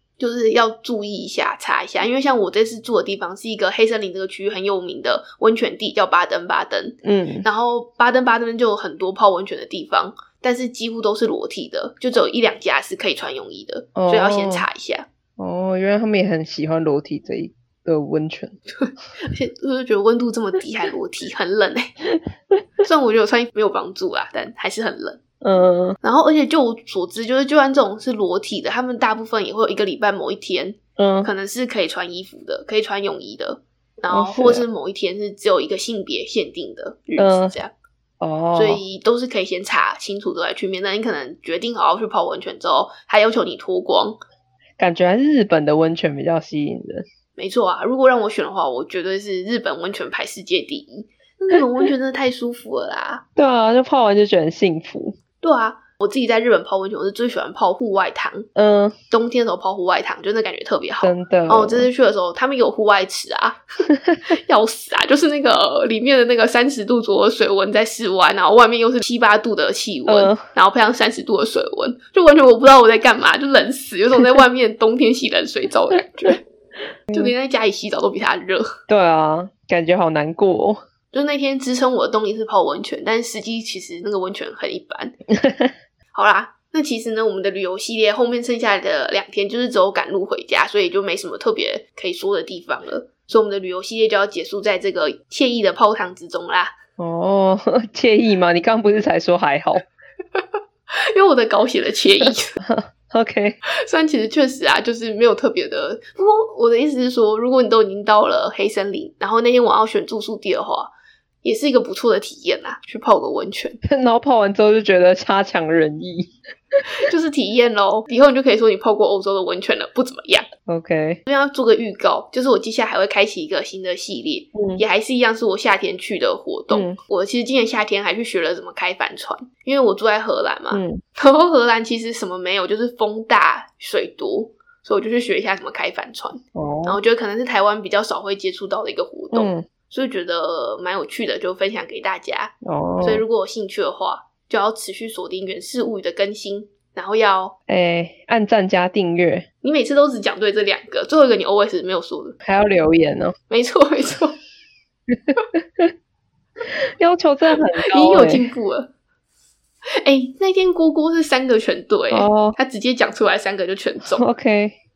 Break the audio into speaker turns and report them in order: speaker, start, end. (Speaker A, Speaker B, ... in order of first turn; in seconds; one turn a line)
Speaker A: 0.2-15.1
Speaker B: 7.0-7.5
Speaker B: 14.0-14.7
Speaker B: 15.4-18.6
Speaker A: 18.8-21.9
Speaker B: 22.1-22.6
Speaker A: 22.8-25.2
Speaker B: 25.4-26.0
Speaker A: 26.0-37.7
Speaker B: 31.0-31.3
Speaker B: 34.1-34.6
Speaker B: 37.2-37.5
Speaker B: 38.2-38.8
Speaker A: 38.5-44.2
Speaker B: 44.8-47.0
Speaker A: 47.4-53.2
Speaker B: 53.4-55.2
Speaker A: 55.4-58.5
Speaker B: 58.6-59.0
Speaker A: 59.1-63.6
Speaker B: 61.0-61.9
Speaker A: 64.3-76.4
Speaker B: 70.1-70.4
Speaker A: 77.1-78.7
Speaker B: 78.9-80.8
Speaker A: 81.1-85.2
Speaker B: 85.4-85.7
Speaker A: 86.1-96.7
Speaker B: 97.0-99.8
Speaker A: 101.1-102.6
Speaker B: 102.6-103.6
Speaker A: 103.8-110.9
Speaker A: 111.4-113.8
Speaker B: 113.8-116.3
Speaker A: 116.9-120.5
Speaker B: 120.7-121.2
Speaker A: 121.3-147.6
Speaker B: 124.5-124.8
Speaker B: 126.7-127.0
Speaker B: 130.7-131.0
Speaker B: 136.6-137.0
Speaker B: 139.3-139.7
Speaker B: 142.6-143.2
Speaker B: 147.7-149.5
Speaker A: 149.6-152.4
Speaker B: 152.4-153.3
Speaker A: 153.5-154.4
Speaker B: 155.1-155.9
Speaker B: 156.7-158.4
Speaker A: 157.9-158.9
Speaker A: 160.0-164.2
Speaker B: 162.1-162.6
Speaker B: 164.1-164.8